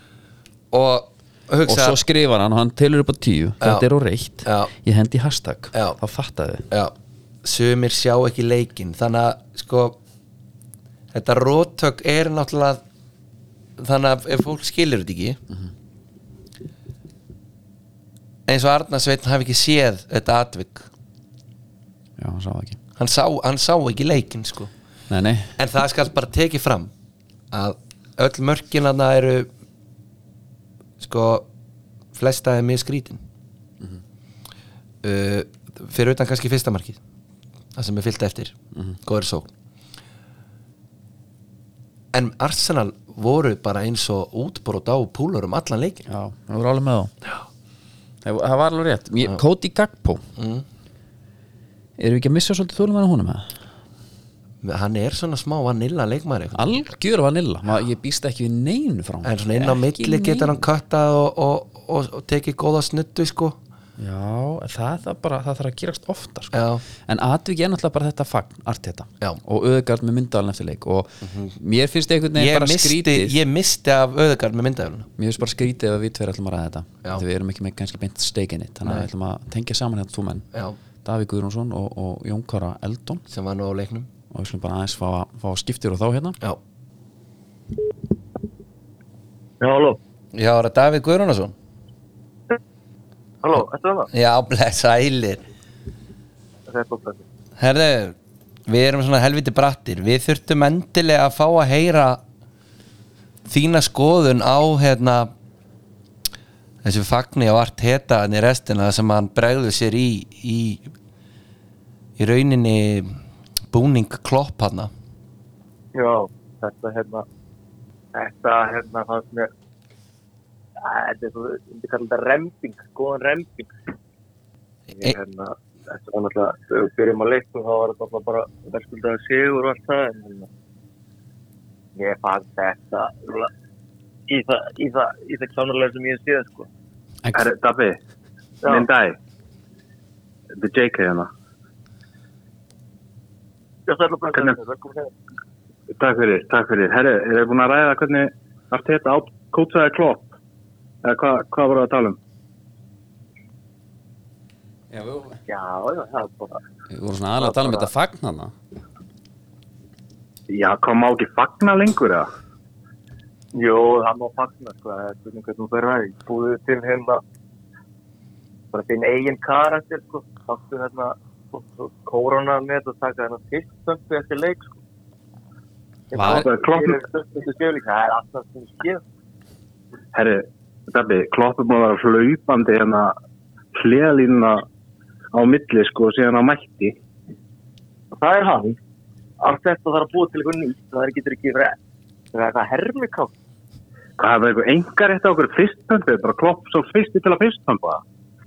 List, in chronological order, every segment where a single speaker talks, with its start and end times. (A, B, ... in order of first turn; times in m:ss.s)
0:00.7-0:02.0 A
0:01.6-0:06.6 B
0:04.4-0:04.7 A
0:05.7-0:06.0 A
0:06.7-0:10.0 A
0:11.1-0:12.8 A
0:13.8-0:15.4 A
0:18.5-0:20.9 A
0:22.2-0:22.8 B
0:23.0-0:24.7 A
0:25.1-0:25.5 B
0:25.6-0:26.9 A
0:27.5-0:29.5 A
0:31.0-0:31.5 A
0:32.1-0:33.2 A
0:35.0-0:37.0 A
0:37.8-0:39.5 A
0:42.1-0:46.0 A
0:46.1-0:47.1 B
0:48.2-0:50.2 B
0:50.4-0:50.6 A
0:52.0-0:53.5 B
0:54.6-0:56.6 A
0:56.5-1:00.5 B
0:59.2-1:03.6 A
1:04.0-1:06.5 B
1:06.5-1:06.8 A
1:07.0-1:13.4 B
1:11.2-1:11.5 A
1:12.4-1:15.1 A
1:15.2-1:20.5 B
1:21.0-1:23.2 B
1:23.3-1:24.1 A
1:24.3-1:26.4 B
1:29.6-1:30.0 C
1:30.3-1:31.5 A
1:33.4-1:34.1 C
1:34.1-1:35.4 A
1:36.7-1:37.2 C
1:37.6-1:38.2 A
1:38.7-1:42.2 A
1:43.5-1:45.3 A
1:46.8-1:50.9 A
1:52.2-1:53.2 A
1:53.7-1:54.9 A
1:55.9-1:57.2 C
1:58.1-1:59.5 C
2:00.8-2:03.7 C
2:04.9-2:10.5 C
2:12.0-2:13.5 C
2:14.3-2:16.7 C
2:17.3-2:18.0 D
2:18.6-2:19.2 D
2:20.5-2:21.3 D
2:23.9-2:25.1 C
2:26.0-2:30.3 D
2:31.0-2:32.2 D
2:35.4-2:36.6 C
2:36.9-2:38.5 B
2:37.4-2:37.9 C
2:40.5-2:42.3 D
2:43.5-2:47.2 C
2:48.7-2:54.8 C
2:56.1-2:59.0 C
2:56.1-2:56.5 B
2:56.2-2:57.0 D
3:00.1-3:03.2 D
3:03.7-3:04.6 D
3:05.3-3:06.9 D
3:08.1-3:08.8 C
3:09.4-3:11.7 C
3:12.3-3:13.3 C
3:14.2-3:18.0 D